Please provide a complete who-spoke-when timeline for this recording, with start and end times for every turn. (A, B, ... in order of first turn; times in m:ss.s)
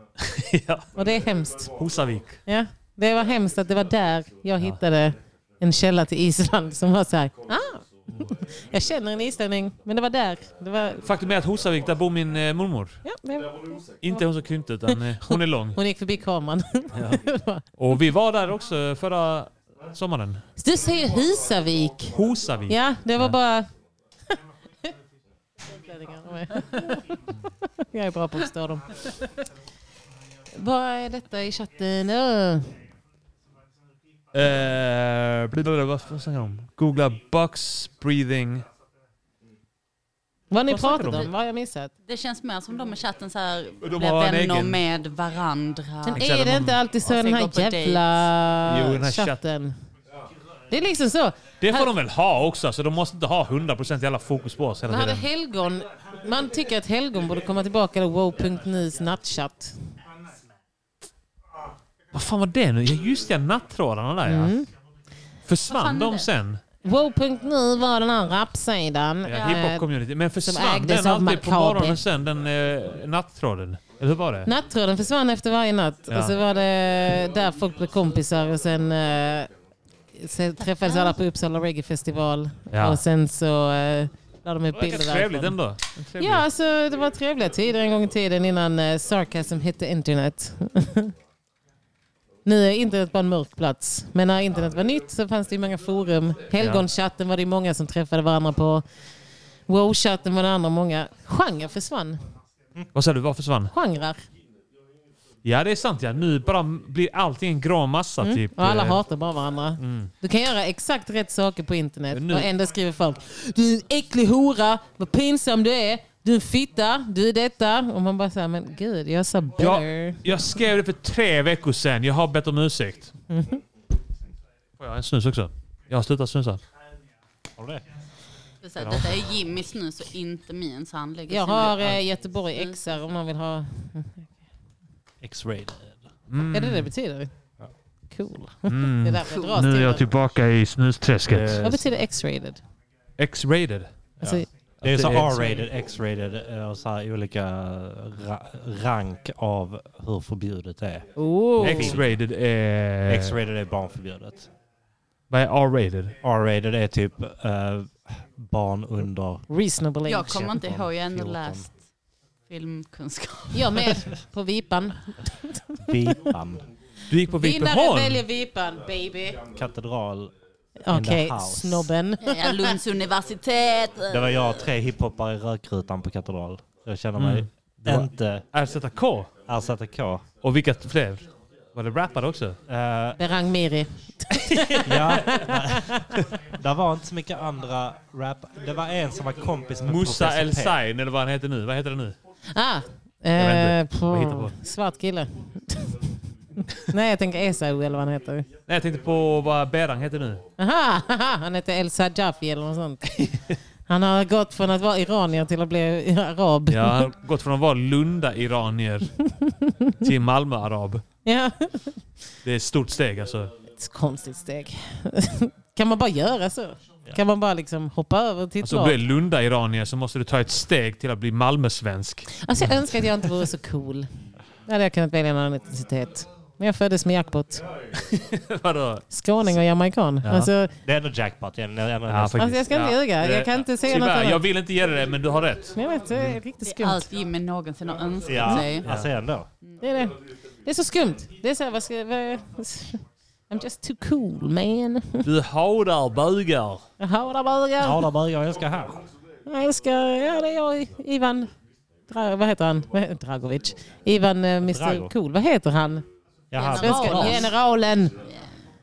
0:00.2-0:00.9 A
0:00.9-0:01.7 B
0:01.7-0:02.4 A
0:02.4-0:11.0 B
0:11.0-0:13.0 A
0:13.0-0:13.5 B
0:14.0-0:15.8 A
0:14.9-0:17.6 B
0:17.8-0:20.4 A
0:20.6-0:22.2 B
0:22.1-0:23.3 A
0:22.7-0:23.7 B
0:25.6-0:27.2 B
0:27.8-0:28.9 B
0:30.5-0:32.7 B
0:34.3-0:38.6 A
0:40.5-0:41.9 B
0:40.7-0:41.3 A
0:42.0-0:46.3 C
0:43.8-0:44.8 A
0:46.0-0:49.7 B
0:46.1-0:46.8 A
0:47.0-0:48.3 C
0:48.7-0:49.4 A
0:50.7-0:51.9 B
0:51.6-0:55.2 A
0:54.9-0:59.7 B
1:02.1-1:04.5 A
1:04.2-1:04.7 B
1:05.4-1:06.6 A
1:05.7-1:06.3 C
1:06.8-1:09.8 B
1:09.2-1:14.5 A
1:09.3-1:09.6 C
1:10.4-1:12.0 B
1:14.4-1:19.5 B
1:20.2-1:25.6 B
1:20.6-1:21.2 C
1:22.7-1:23.0 A
1:24.7-1:26.4 A
1:26.2-1:31.1 B
1:32.4-1:38.8 B
1:36.6-1:36.8 A
1:39.7-1:42.2 B
1:42.9-1:43.7 A
1:43.7-1:44.2 B
1:45.4-1:49.0 A
1:48.2-2:00.2 B
1:49.8-1:50.1 A
1:52.1-1:52.5 A
1:59.6-2:03.1 A
2:03.3-2:03.6 B
2:04.8-2:06.6 A
2:08.6-2:11.9 C
2:11.3-2:14.3 B
2:15.2-2:16.0 D
2:16.3-2:16.9 A
2:16.5-2:17.3 B
2:18.1-2:20.1 B
2:18.7-2:21.7 A
2:19.3-2:19.6 C
2:21.3-2:21.8 D
2:21.6-2:22.6 B
2:23.2-2:23.9 A
2:24.2-2:31.1 D
2:24.2-2:24.5 B
2:24.8-2:25.5 A
2:25.3-2:25.6 B
2:31.2-2:32.0 B
2:31.6-2:32.2 D
2:31.6-2:33.3 A
2:33.1-2:34.5 D
2:35.3-2:36.1 A
2:36.2-2:39.4 D
2:39.5-2:40.6 B
2:40.1-2:41.7 C
2:40.4-2:41.7 D
2:42.5-2:43.7 C
2:43.5-2:45.6 B
2:45.8-2:46.6 D
2:47.1-2:48.2 A
2:47.3-2:49.4 B
2:49.5-2:50.3 D
2:50.8-2:52.8 B
2:50.9-2:51.9 D
2:52.2-2:54.4 C
2:54.1-2:58.4 D
2:57.2-2:59.3 A
2:59.5-3:00.2 D
3:00.4-3:02.6 A
3:02.7-3:03.2 D
3:03.2-3:05.9 B
3:04.8-3:05.9 D
3:06.6-3:10.8 D
3:09.8-3:12.2 A
3:12.5-3:16.0 B
3:13.4-3:14.5 A
3:16.9-3:18.5 B
3:18.6-3:20.4 A
3:20.6-3:23.0 B
3:23.9-3:27.1 B
3:26.7-3:29.1 A
3:29.4-3:29.7 B
3:30.0-3:31.0 A
3:31.2-3:31.9 B
3:32.4-3:33.5 A
3:33.7-3:39.0 B
3:38.6-3:42.7 A
3:42.3-3:44.1 B
3:44.6-3:47.6 B
3:48.0-3:49.0 A
3:49.1-3:50.7 B
3:50.2-3:50.5 A
3:50.8-3:52.6 D
3:52.1-3:56.4 A
3:52.3-3:54.4 B
3:55.7-3:57.1 B
3:56.6-3:59.0 C
3:58.2-3:59.5 D
3:59.8-4:05.3 B
4:05.2-4:06.8 A
4:07.0-4:08.0 B
4:07.8-4:09.0 D
4:09.4-4:11.5 B
4:12.1-4:16.0 B
4:14.6-4:15.1 D
4:16.5-4:17.4 D
4:16.5-4:17.6 C
4:16.8-4:18.1 B